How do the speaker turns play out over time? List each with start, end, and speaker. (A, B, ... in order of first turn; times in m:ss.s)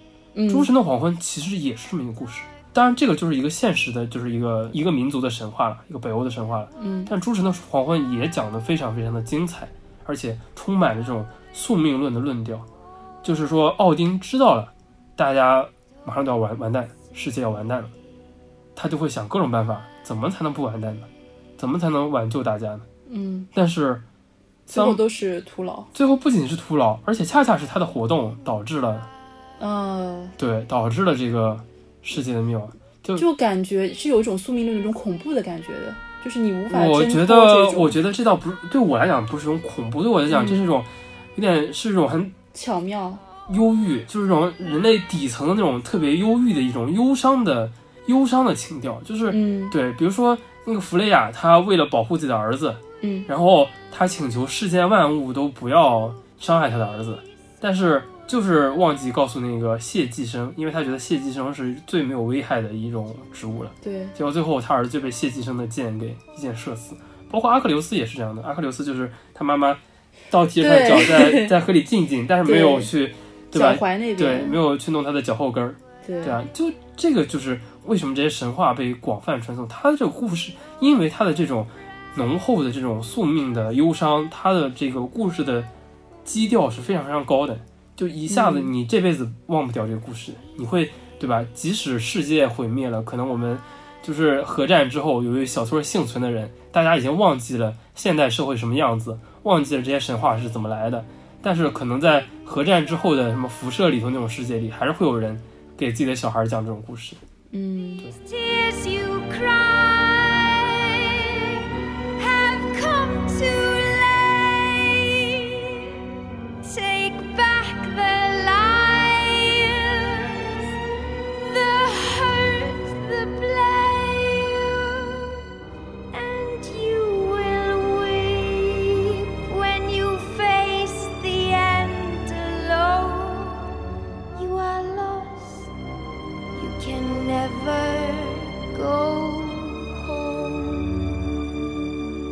0:00.3-0:00.7 A
0:00.5-0:12.7 B
0:06.8-0:07.1 A
0:13.2-0:17.9 B
0:18.7-0:22.8 B
0:23.1-0:23.5 A
0:23.5-0:24.0 B
0:24.7-0:25.0 B
0:24.7-0:25.9 A
0:25.9-0:29.1 B
0:29.6-0:30.3 A
0:30.4-0:33.2 B
0:33.2-0:38.0 A
0:36.7-0:42.3 B
0:40.3-0:40.6 A
0:42.5-0:43.2 A
0:43.4-1:09.8 B
0:49.3-0:49.8 A
0:53.0-0:53.3 A
1:03.8-1:04.2 A
1:10.3-1:25.7 B
1:10.6-1:11.6 A
1:12.4-1:12.9 A
1:13.5-1:14.6 A
1:16.0-1:16.4 A
1:26.2-1:47.2 B
1:28.3-1:28.7 A
1:47.5-1:48.1 A
1:48.2-1:56.0 C
1:56.6-2:05.4 C
2:06.1-2:13.8 C
2:14.3-2:15.7 C
2:16.5-2:21.1 C